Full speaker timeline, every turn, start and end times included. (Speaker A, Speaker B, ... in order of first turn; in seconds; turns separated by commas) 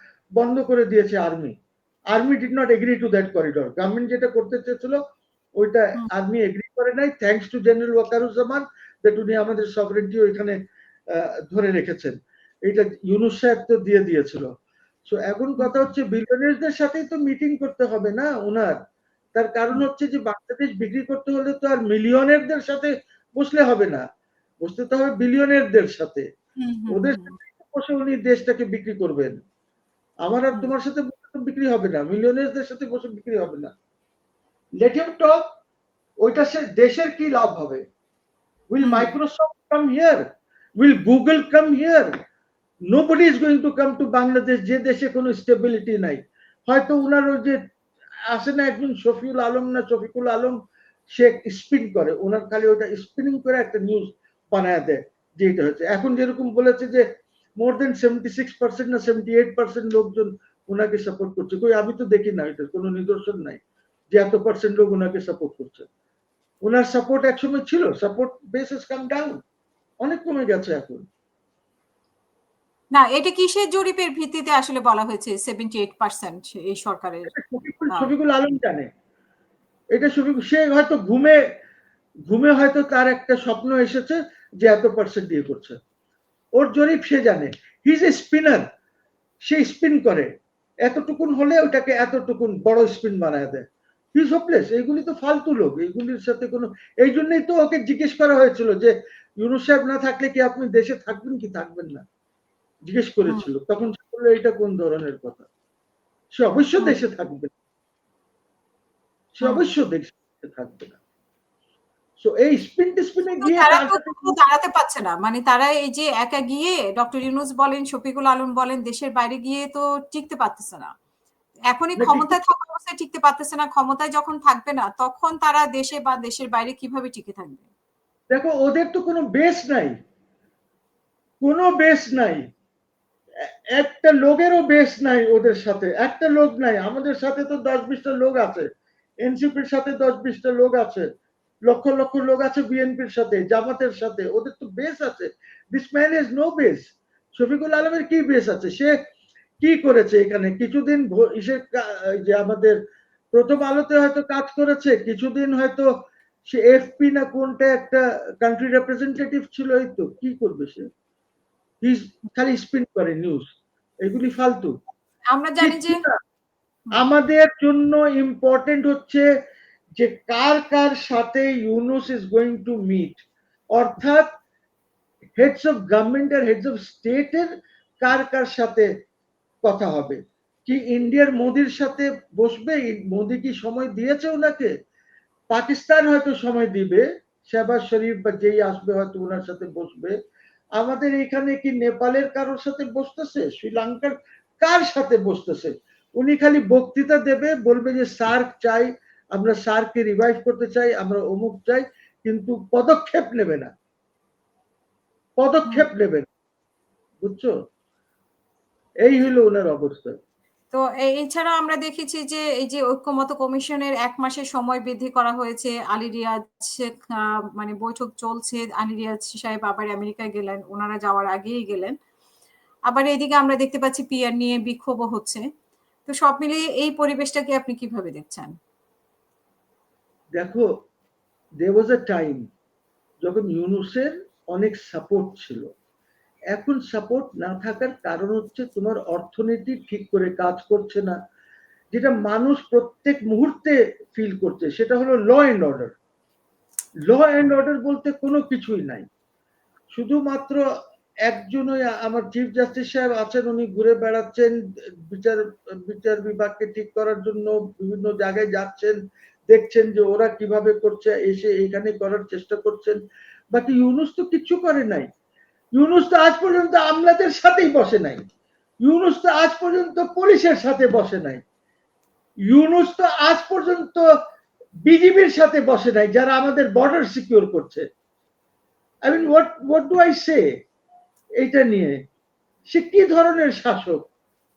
Speaker A: 0.4-1.5, Speaker A: 2.1-5.0, Speaker A: 5.6-10.6, Speaker A: 11.1-14.5, Speaker A: 15.1-18.8, Speaker B: 15.6-15.9, Speaker A: 19.4-24.1, Speaker A: 24.6-26.2, Speaker B: 26.6-27.4, Speaker A: 26.9-29.4, Speaker A: 30.2-33.7, Speaker A: 34.8-35.4, Speaker A: 36.2-37.8, Speaker A: 38.7-40.2, Speaker B: 38.8-39.1, Speaker A: 40.8-42.1, Speaker A: 42.9-47.6, Speaker A: 48.3-50.6, Speaker A: 51.1-57.0, Speaker A: 57.6-63.6, Speaker A: 64.1-65.9, Speaker A: 66.6-69.4, Speaker A: 70.0-71.0, Speaker B: 72.9-77.3, Speaker A: 77.3-78.9, Speaker A: 79.9-81.4, Speaker A: 82.3-85.8, Speaker A: 86.6-88.6, Speaker A: 89.5-90.3, Speaker A: 90.8-102.0, Speaker A: 102.9-105.5, Speaker A: 106.4-107.5, Speaker A: 109.4-111.0, Speaker B: 109.4-109.7, Speaker A: 112.2-114.3, Speaker B: 113.4-120.9, Speaker B: 121.7-127.7, Speaker A: 122.0-122.4, Speaker A: 128.3-129.9, Speaker A: 131.4-132.4, Speaker A: 133.7-138.7, Speaker A: 139.2-141.1, Speaker A: 141.7-148.9, Speaker A: 149.6-152.8, Speaker A: 153.3-155.9, Speaker A: 156.5-160.8, Speaker A: 161.8-163.5, Speaker A: 164.0-164.7, Speaker B: 165.3-166.0, Speaker A: 165.6-166.2, Speaker A: 166.9-169.2, Speaker A: 170.0-173.2, Speaker A: 173.7-174.2, Speaker A: 175.4-177.5, Speaker A: 178.0-178.9, Speaker A: 179.6-184.7, Speaker A: 185.5-190.2, Speaker A: 190.8-203.7, Speaker A: 205.4-206.2, Speaker A: 207.2-207.5, Speaker A: 209.0-210.1, Speaker B: 210.7-221.9, Speaker B: 222.9-225.4, Speaker B: 226.1-228.5, Speaker A: 230.3-230.7, Speaker A: 231.6-232.4, Speaker A: 233.2-235.7, Speaker A: 236.5-241.2, Speaker A: 241.9-245.9, Speaker A: 247.1-249.1, Speaker A: 249.9-250.6, Speaker A: 251.3-254.5, Speaker A: 255.1-259.0, Speaker A: 259.5-263.0, Speaker A: 263.5-265.1, Speaker A: 265.8-268.2, Speaker A: 268.8-271.4, Speaker A: 272.5-274.0, Speaker A: 274.9-277.8, Speaker A: 279.1-280.4, Speaker A: 281.4-282.0, Speaker A: 282.7-284.1